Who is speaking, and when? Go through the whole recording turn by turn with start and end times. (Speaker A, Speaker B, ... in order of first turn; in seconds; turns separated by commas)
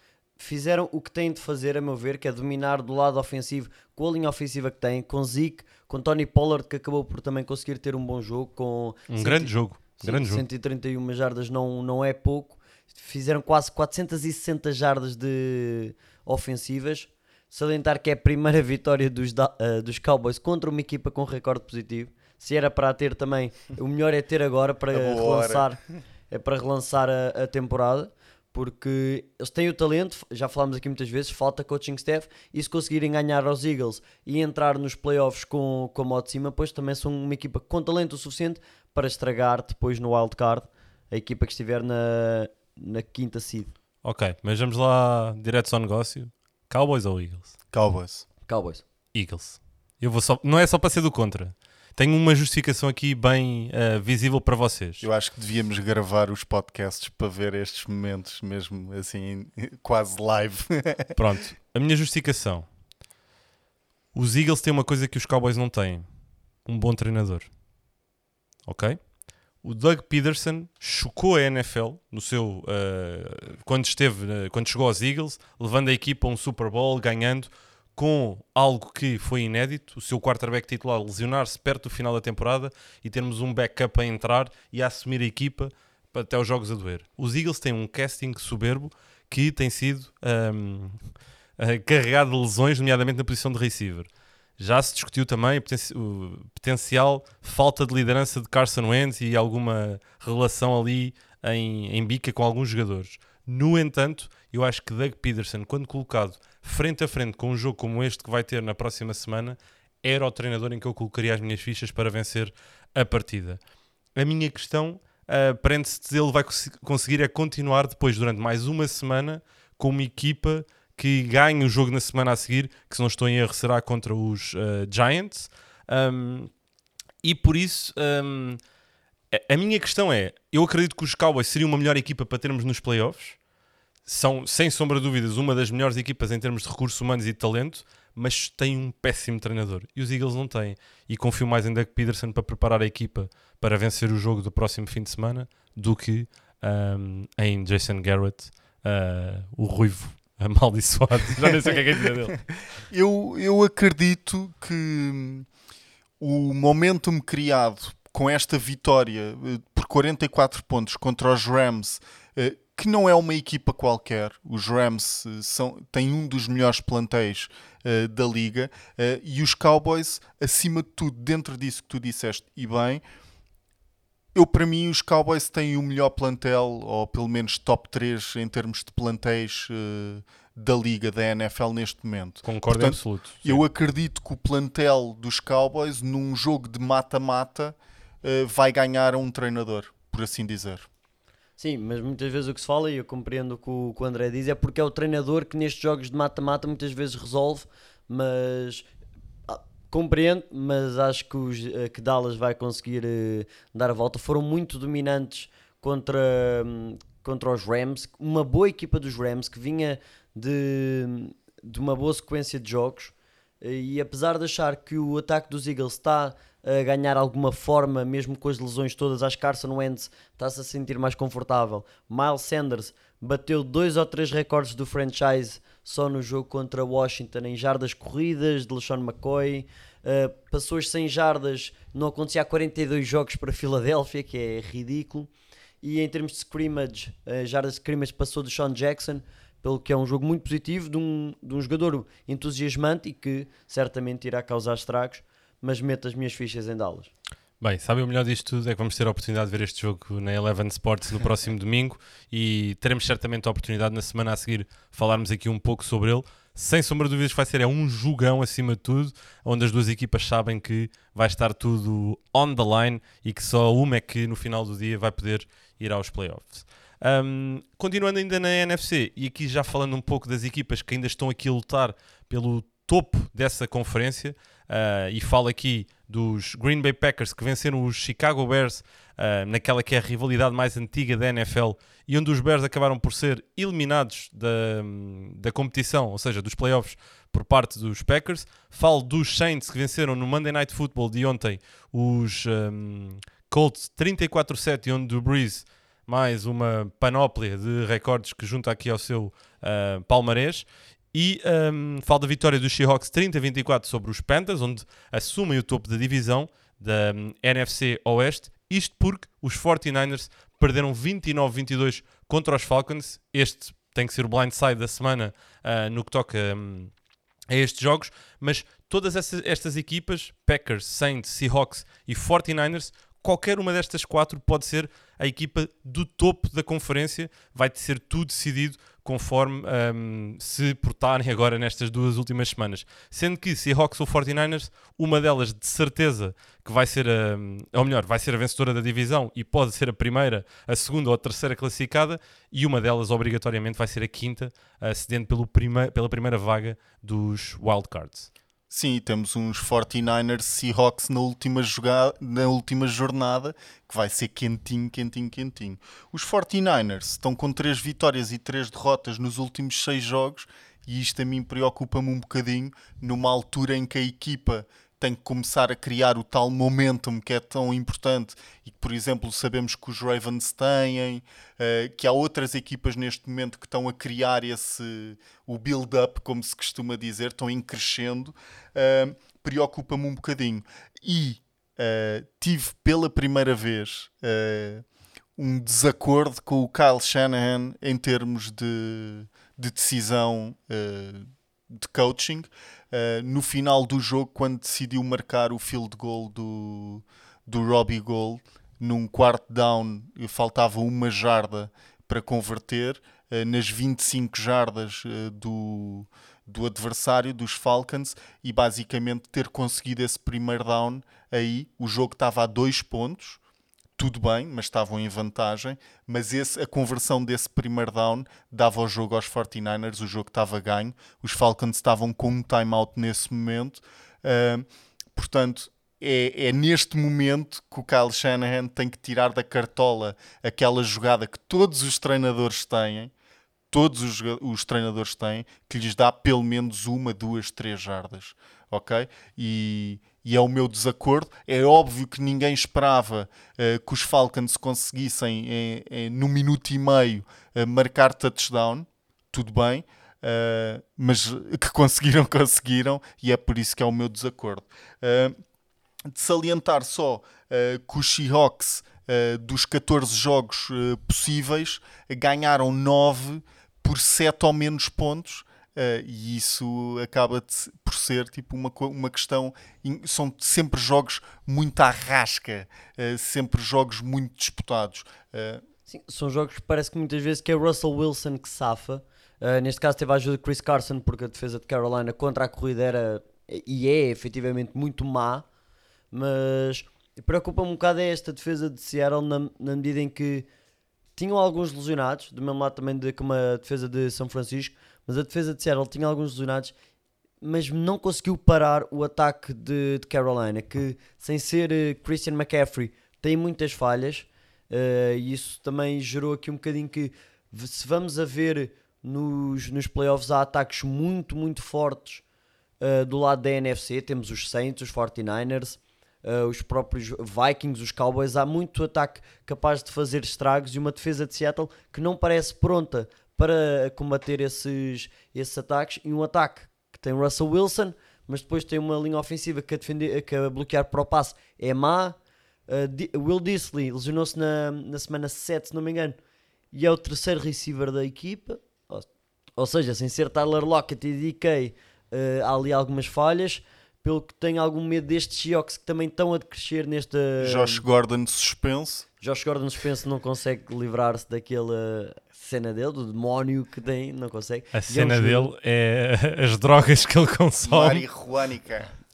Speaker A: 0.4-25.8, Speaker B: 9.1-10.4, Speaker C: 24.9-25.7, Speaker A: 26.3-43.7, Speaker B: 44.0-47.5, Speaker C: 47.7-48.3, Speaker A: 48.5-48.8, Speaker B: 49.1-55.1, Speaker C: 55.0-61.2, Speaker B: 61.1-62.6, Speaker B: 64.1-66.0, Speaker B: 66.6-67.5, Speaker B: 68.7-69.0, Speaker B: 69.6-91.0, Speaker B: 91.6-113.6, Speaker B: 114.1-126.5, Speaker B: 127.2-128.6, Speaker B: 129.3-133.4, Speaker B: 134.0-152.4, Speaker C: 152.9-155.5, Speaker C: 156.2-173.0, Speaker C: 174.3-190.9, Speaker B: 182.4-183.6, Speaker A: 191.6-198.9, Speaker A: 199.5-235.3, Speaker A: 235.8-247.1, Speaker B: 247.6-316.9, Speaker B: 317.5-348.3, Speaker C: 348.7-384.8, Speaker C: 385.4-413.4, Speaker C: 414.0-433.1, Speaker C: 433.7-455.4, Speaker C: 456.1-475.6, Speaker A: 475.9-485.4, Speaker A: 486.1-490.5, Speaker A: 491.1-496.7, Speaker A: 497.4-512.2, Speaker A: 512.8-532.2, Speaker A: 532.7-536.2, Speaker A: 536.7-547.8, Speaker C: 547.4-549.0, Speaker A: 549.2-555.5, Speaker B: 554.7-558.0, Speaker C: 557.6-558.9